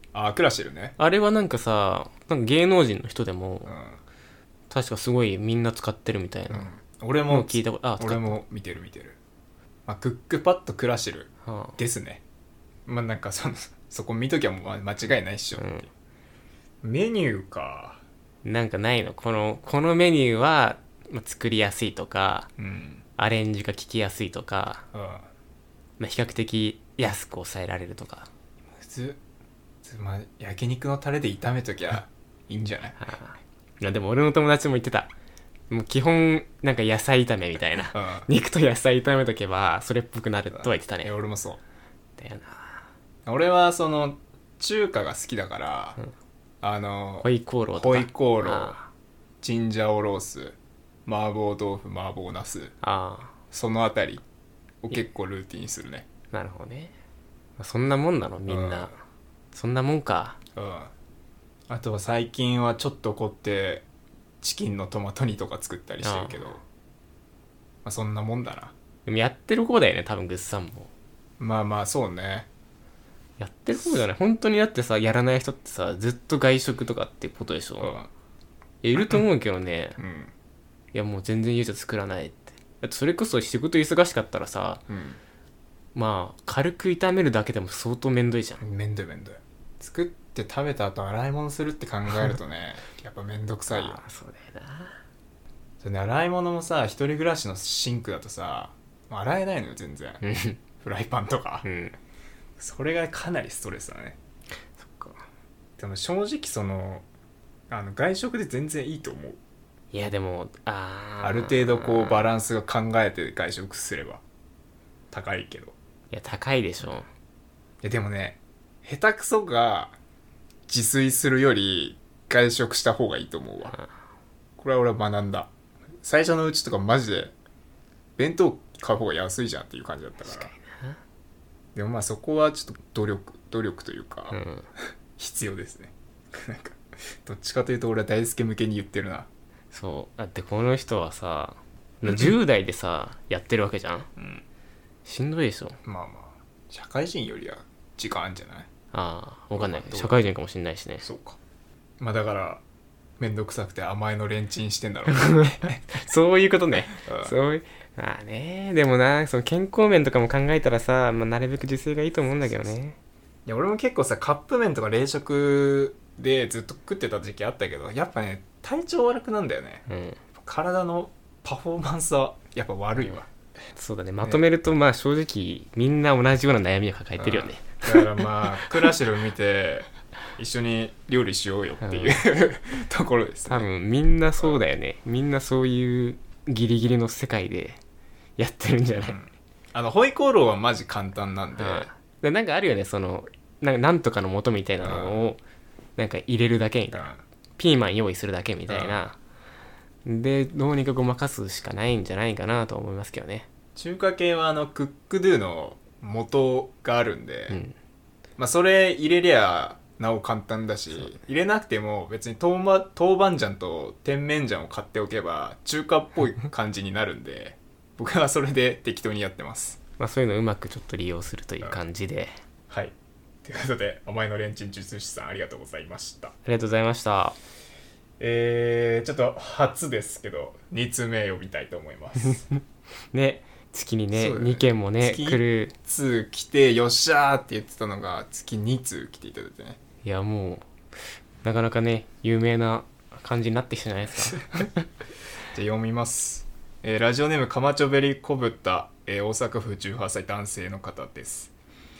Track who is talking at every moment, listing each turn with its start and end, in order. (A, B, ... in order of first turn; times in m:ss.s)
0:00.1-0:00.9 A
0:01.0-0:03.7 B
0:03.6-0:04.0 A
0:04.7-0:06.7 B
0:06.5-0:09.2 A
0:07.3-0:08.4 B
0:09.9-0:12.2 A
0:11.4-0:11.7 B
0:12.9-0:15.9 A
0:15.6-0:15.8 B
0:16.8-0:18.0 A
0:18.4-0:22.5 B
0:22.6-0:23.0 A
0:23.2-0:24.8 B
0:24.9-0:25.3 A
0:26.0-0:28.3 B
0:28.8-0:29.2 A
0:29.8-0:33.0 A
0:33.0-0:35.1 B
0:35.7-0:41.1 B
0:37.9-0:38.3 A
0:40.5-0:41.6 A
0:42.2-0:42.8 B
0:43.2-0:46.0 A
0:46.6-0:48.8 A
0:47.2-0:48.9 B
0:49.4-0:52.7 A
0:52.8-0:53.3 B
0:53.5-0:54.2 A
0:54.8-0:56.1 A
0:56.3-0:56.9 B
0:57.6-0:58.9 B
0:58.5-0:58.9 A
0:59.5-1:00.4 B
1:00.6-1:00.9 A
1:01.7-1:03.8 A
1:04.4-1:06.6 A
1:06.0-1:06.5 B
1:07.8-1:08.7 A
1:09.0-1:10.9 B
1:11.4-1:12.5 A
1:13.4-1:17.9 B
1:17.8-1:18.1 A
1:18.8-1:20.0 B
1:20.0-1:20.3 A
1:20.9-1:24.8 B
1:24.9-1:25.2 A
1:25.9-1:28.6 B
1:28.6-1:34.0 A
1:33.7-1:35.0 B
1:35.8-1:40.2 A
1:40.2-1:40.6 B
1:40.8-1:41.6 A
1:41.6-1:42.0 B
1:42.6-1:44.2 A
1:44.8-1:45.2 B
1:45.8-1:47.0 A
1:47.7-1:49.4 A
1:49.9-1:52.2 B
1:51.2-1:54.2 A
1:55.1-1:55.7 A
1:56.1-1:57.1 B
1:57.8-2:00.0 A
2:00.7-2:03.8 A
2:04.6-2:05.5 A
2:06.0-2:07.3 A
2:08.2-2:10.5 A
2:10.2-2:11.0 B
2:11.7-2:14.4 A
2:14.3-2:14.7 B
2:15.2-2:19.3 A
2:19.7-2:24.1 B
2:24.2-2:24.4 A
2:25.0-2:25.8 B
2:25.8-2:28.7 A
2:28.9-2:31.0 B
2:29.5-2:30.2 A
2:31.0-2:31.4 A
2:32.0-2:32.6 A
2:33.2-2:36.0 A
2:35.1-2:43.0 B
2:36.9-2:37.3 A
2:43.4-2:49.8 A
2:49.9-2:50.2 B
2:50.4-2:53.3 A
2:53.7-2:58.2 B
2:57.2-3:03.6 A
3:01.8-3:02.2 B
3:03.5-3:07.8 B
3:08.4-3:09.2 B
3:09.0-3:11.9 A
3:11.6-3:15.4 B
3:14.8-3:15.2 A
3:16.0-3:19.2 B
3:16.9-3:17.2 A
3:18.7-3:19.0 A
3:20.0-3:23.5 B
3:23.8-3:27.6 A
3:27.5-3:27.7 B
3:28.4-3:39.8 A
3:40.0-3:42.3 B
3:42.7-3:46.3 A
3:46.4-3:47.4 B
3:48.2-3:52.4 A
3:53.1-3:55.7 B
3:54.1-3:59.8 A
4:00.0-4:00.7 B
4:01.4-4:04.8 B
4:05.5-4:11.5 A